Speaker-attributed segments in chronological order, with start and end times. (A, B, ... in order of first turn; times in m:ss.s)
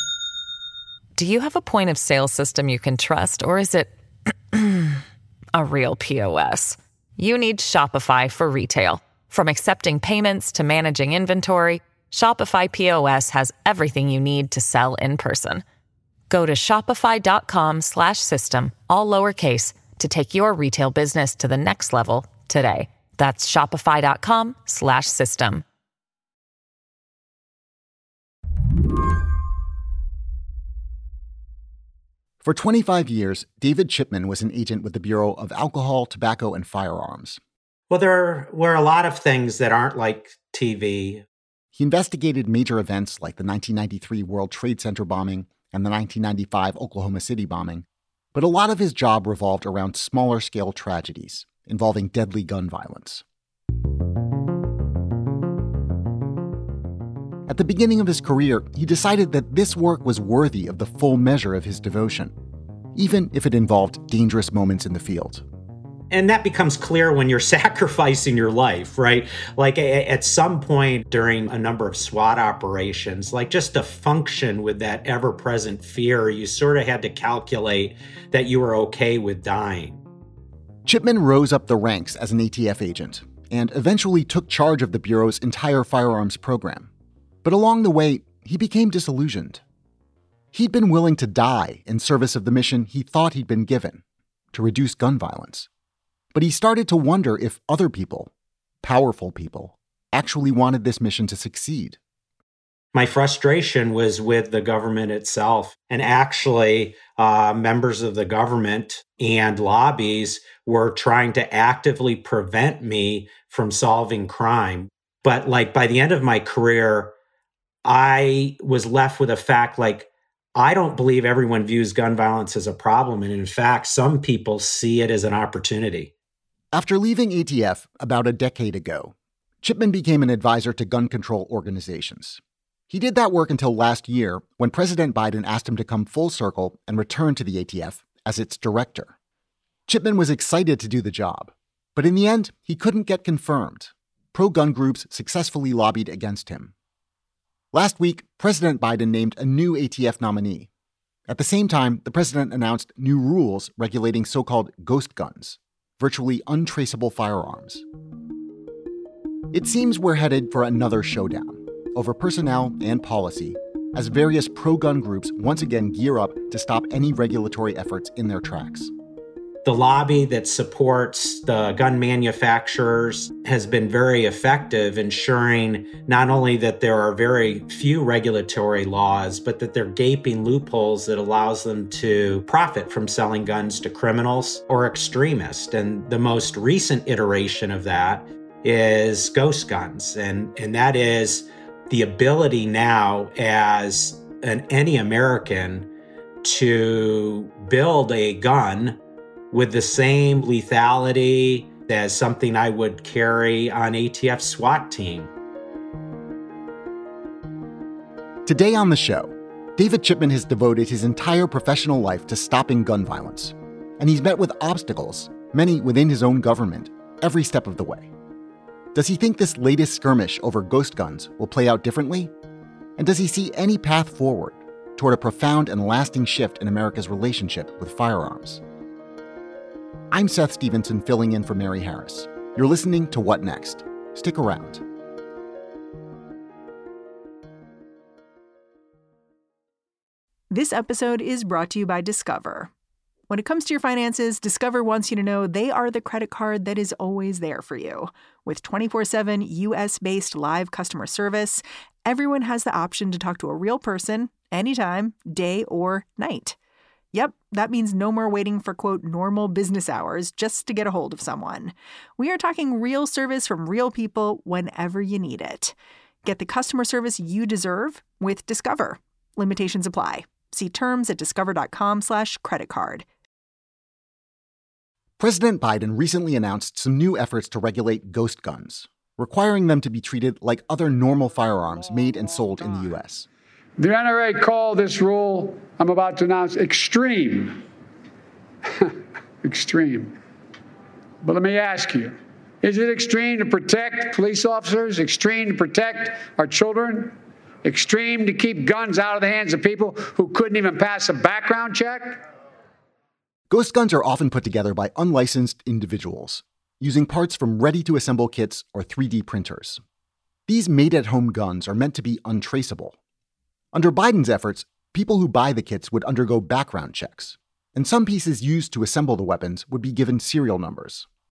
0:01.2-0:03.9 A
0:04.5-0:05.0 A
0:05.5-0:15.6 A
0:16.3-0:25.6 A
0:32.4-0:37.4 B
0:37.9-0:41.2 C
0:41.7-0:53.2 B
0:57.5-1:02.3 B
1:02.9-1:05.4 B
1:06.1-1:20.0 C
1:20.8-1:26.9 B
1:27.4-1:29.6 B
1:30.5-1:34.0 B
1:34.5-1:35.7 B
1:36.3-1:38.3 B
1:38.8-1:42.0 B
1:42.9-1:57.1 C
1:57.8-2:06.1 C
2:06.7-2:19.1 B
2:19.9-2:26.7 B
2:27.7-2:30.7 B
2:31.3-2:37.8 B
2:39.5-2:48.9 B
2:49.6-3:15.9 C
3:16.4-3:19.0 C
3:19.5-3:25.3 C
3:28.4-3:38.1 B
3:38.9-3:42.3 B
3:43.0-3:48.6 B
3:50.1-3:54.8 B
4:00.5-4:02.7 D
4:03.3-4:16.6 D
4:17.1-4:33.0 D
4:35.2-4:43.3 B
4:43.8-4:47.6 E
4:48.8-4:50.2 E
4:51.2-5:02.2 E
5:03.5-5:09.8 B
5:10.5-5:13.0 B
5:13.7-5:21.1 B